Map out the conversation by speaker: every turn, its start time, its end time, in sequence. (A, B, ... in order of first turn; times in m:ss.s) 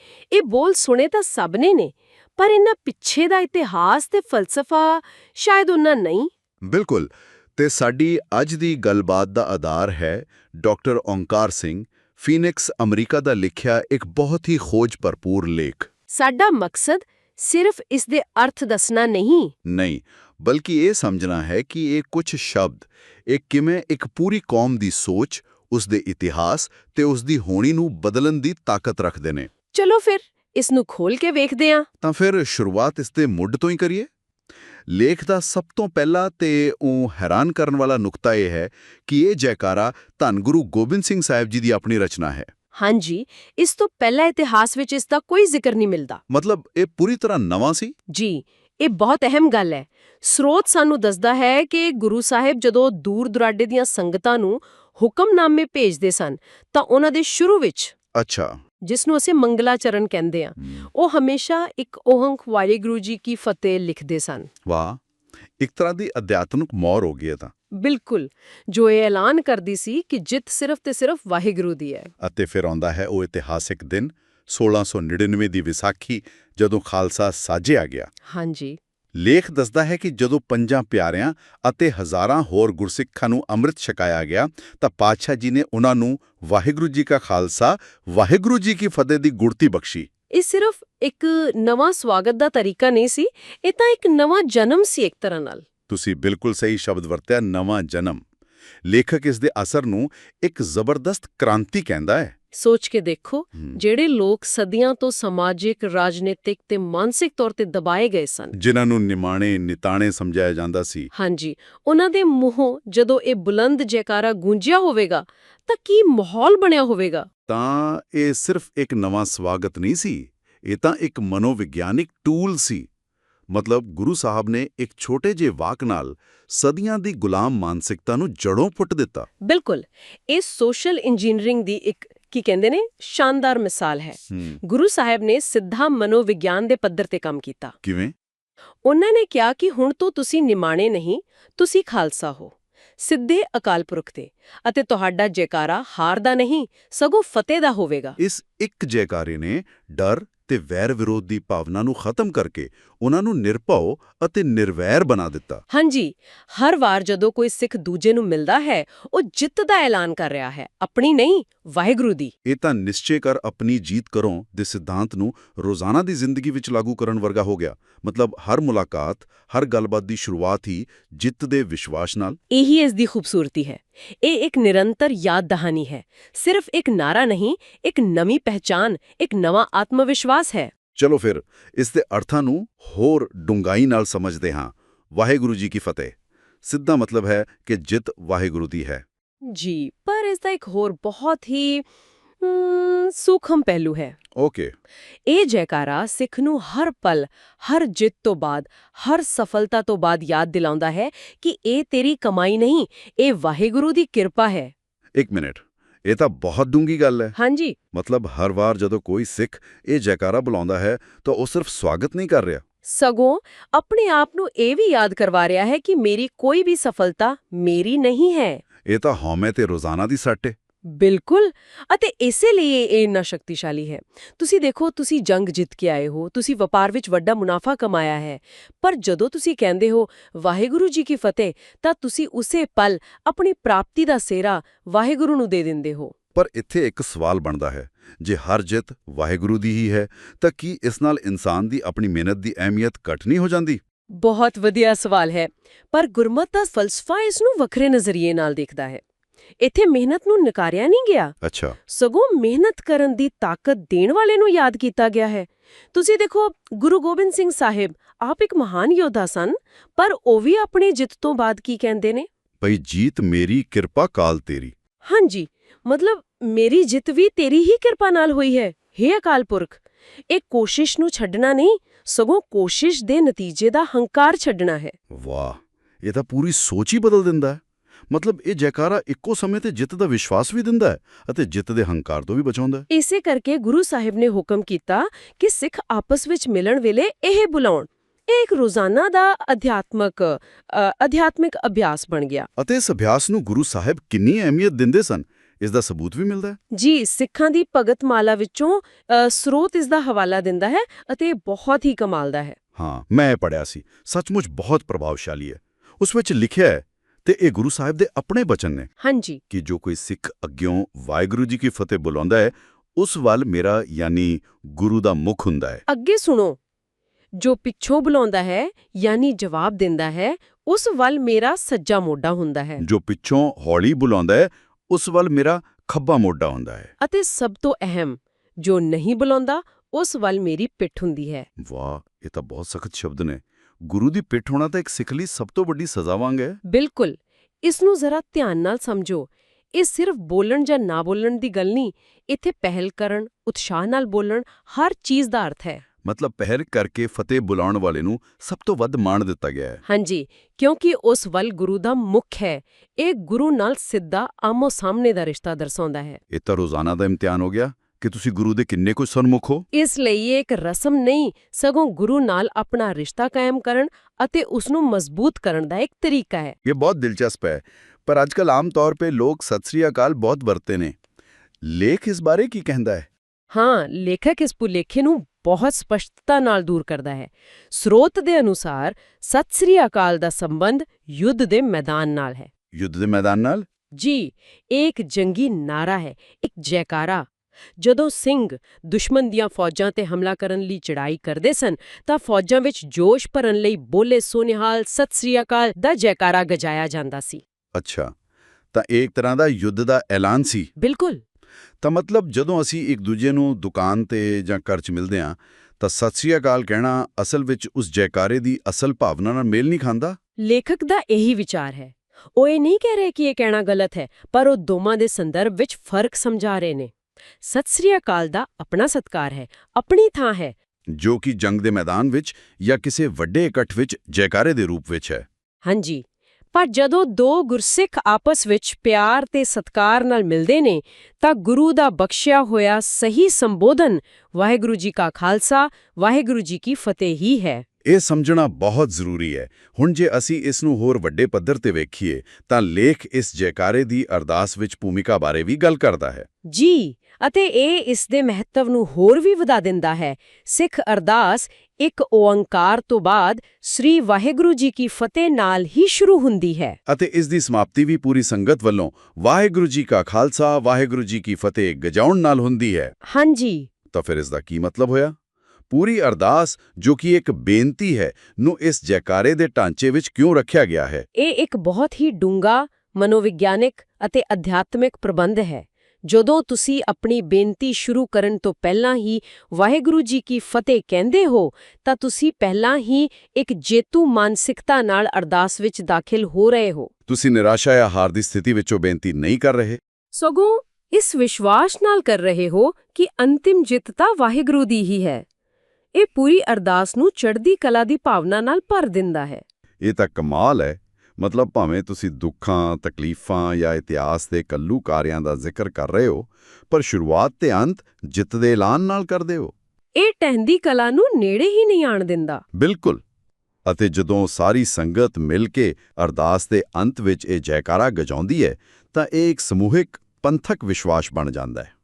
0:00.3-0:06.3 A
0:06.7-0:15.9 B
0:16.1-0:19.5 A
0:19.6-0:29.5 B
0:29.7-0:31.9 A
0:32.0-0:34.1 B
0:34.9-0:42.5 B
0:42.8-0:46.2 A
0:46.3-0:48.0 B
0:48.1-0:57.9 A
0:58.2-0:58.6 B
0:58.8-1:04.5 A
1:04.6-1:05.0 B
1:05.6-1:07.5 B
1:07.8-1:12.1 A
1:12.2-1:18.1 B
1:18.3-1:18.8 A
1:19.2-1:30.1 B
1:30.3-1:35.6 A
1:35.9-1:38.2 B
1:38.8-1:42.3 B
1:42.5-1:48.6 A
1:48.5-1:51.1 B
1:51.1-1:57.3 A
1:57.5-2:02.9 B
2:03.5-2:09.3 B
2:09.4-2:17.8 A
2:14.3-2:14.6 B
2:17.8-2:18.1 B
2:18.8-2:28.2 A
2:28.2-2:35.6 B
2:35.7-2:42.3 A
2:42.4-2:52.4 B
2:52.5-3:00.7 A
3:01.0-3:09.0 B
3:09.4-3:11.8 A
3:12.4-3:14.2 A
3:14.4-3:14.7 B
3:15.3-3:24.7 A
3:25.2-3:27.4 B
3:27.4-3:27.8 A
3:27.9-3:32.6 B
3:32.9-3:38.6 A
3:38.9-3:40.6 B
3:40.8-3:56.1 A
3:56.4-4:03.8 B
4:04.1-4:09.0 A
4:09.6-4:11.4 A
4:11.4-4:11.8 B
4:11.9-4:22.3 A
4:22.6-4:24.7 B
4:25.0-4:35.0 A
4:35.1-4:37.6 B
4:38.1-4:42.9 B
4:42.9-4:52.5 A
4:52.6-4:56.6 B
4:56.7-5:02.6 A
5:02.8-5:08.9 B
5:09.0-5:09.4 A
5:09.5-5:15.8 B
5:15.9-5:16.6 A
5:17.4-5:22.8 A
5:22.8-5:26.9 B
5:27.0-5:31.5 A
5:31.6-5:36.6 B
5:36.6-5:45.8 A
5:46.0-5:49.8 B
5:49.9-5:56.2 A
5:56.3-5:59.7 B
5:59.7-6:06.6 A
6:06.6-6:11.0 B
6:11.6-6:13.1 B
6:13.5-6:22.5 A
6:22.7-6:23.7 B
6:24.0-6:37.4 A
6:37.8-6:38.1 B
6:38.7-6:40.7 B
6:40.8-6:41.2 A
6:41.8-6:50.2 B
6:50.4-6:56.9 A
6:57.4-7:00.6 A
7:00.9-7:05.3 B
7:05.6-7:17.6 A
7:17.8-7:26.3 B
7:26.4-7:36.8 A
7:36.9-7:43.0 B
7:43.0-7:43.7 A
7:43.9-7:45.2 B
7:45.7-7:51.1 B
7:51.2-8:06.9 A
8:07.1-8:09.8 B
8:10.1-8:15.2 A
8:15.9-8:19.4 A
8:19.8-8:29.5 B
8:30.0-8:32.4 A
8:32.6-8:33.0 B
8:33.7-8:41.7 B